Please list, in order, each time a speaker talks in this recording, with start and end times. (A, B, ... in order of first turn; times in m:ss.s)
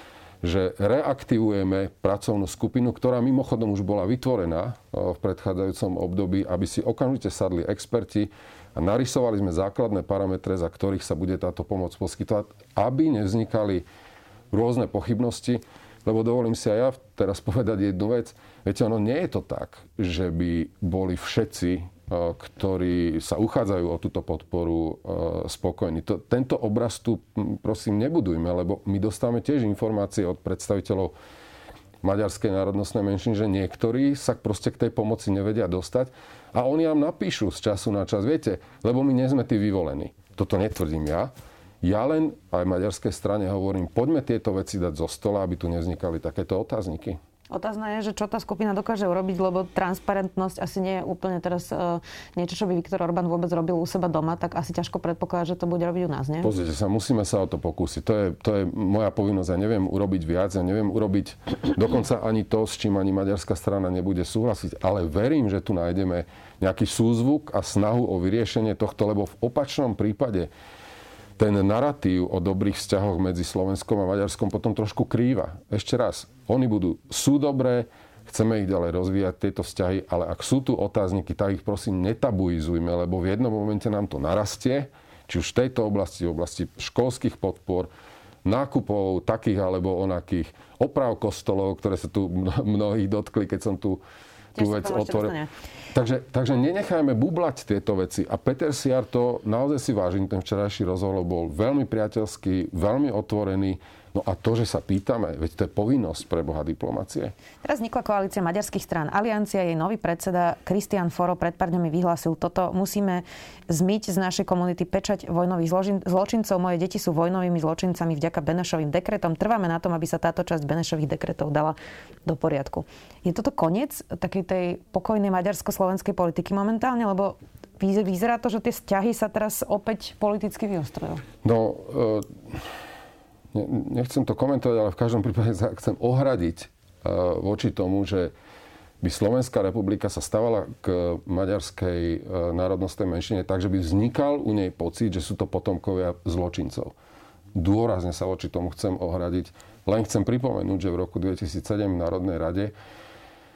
0:00.4-0:13.9 A
0:14.5-0:31.1 A
0:32.0-0:47.2 A
0:47.5-0:56.5 B
0:56.4-1:10.5 A
1:11.4-1:27.9 A
1:28.4-1:34.0 A
1:34.6-1:35.5 B
1:34.6-1:35.4 A
1:35.9-1:47.3 A
1:47.6-2:11.2 B
2:11.4-2:12.6 A
2:13.5-2:18.3 A
2:19.0-2:26.9 A
2:27.5-2:32.7 A